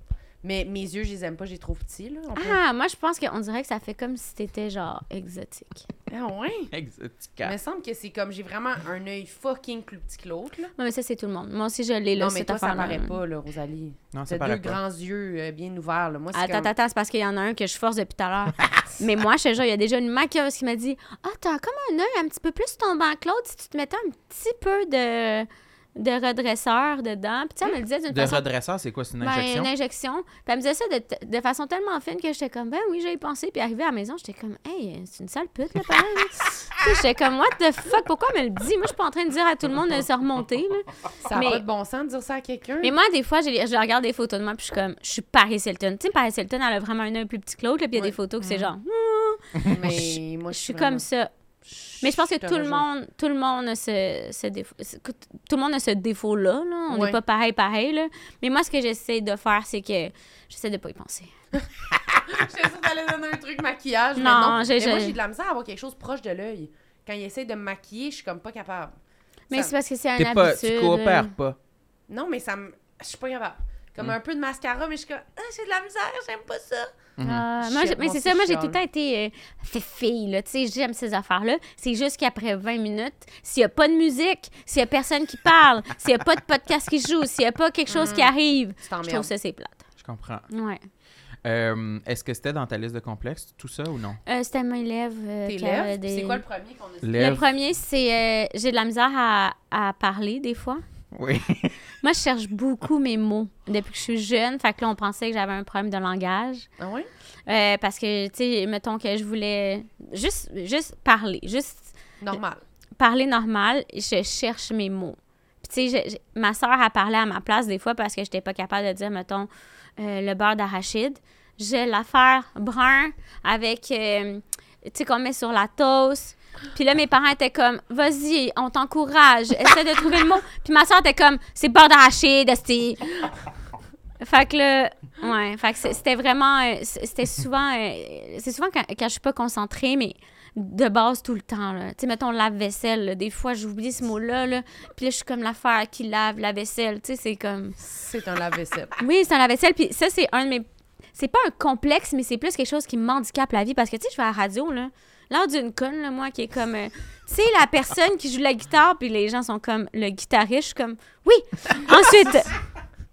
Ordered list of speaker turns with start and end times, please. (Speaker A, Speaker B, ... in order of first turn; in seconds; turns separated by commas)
Speaker A: 0.4-2.6, Speaker B: 2.4-5.9, Speaker A: 6.1-6.7, Speaker C: 6.7-7.6, Speaker A: 7.4-10.7, Speaker B: 10.8-13.2, Speaker A: 12.2-16.7, Speaker C: 14.1-14.8, Speaker B: 16.3-28.4, Speaker C: 28.1-29.7, Speaker B: 29.2-41.6, Speaker A: 41.2-42.9, Speaker B: 42.8-51.3, Speaker A: 48.0-48.7, Speaker A: 49.6-51.0, Speaker A: 51.6-52.9, Speaker B: 52.0-61.3, Speaker A: 56.9-57.2, Speaker A: 61.6-69.0, Speaker B: 64.2-65.2, Speaker B: 69.5-71.3, Speaker C: 70.2-71.6, Speaker A: 72.1-76.9, Speaker C: 77.2-77.5, Speaker B: 77.2-89.9, Speaker A: 77.6-78.8, Speaker A: 87.9-89.3, Speaker C: 90.0-90.5, Speaker B: 90.5-90.8, Speaker C: 91.4-94.2, Speaker B: 94.3-96.4, Speaker A: 95.5-97.4, Speaker C: 97.0-97.5, Speaker B: 97.2-100.8, Speaker C: 101.1-101.8, Speaker B: 102.0-106.7, Speaker A: 106.8-107.1, Speaker B: 107.5-112.0, Speaker A: 112.2-112.6, Speaker B: 113.0-133.1, Speaker B: 134.2-147.8, Speaker A: 147.8-148.9, Speaker B: 149.0-162.6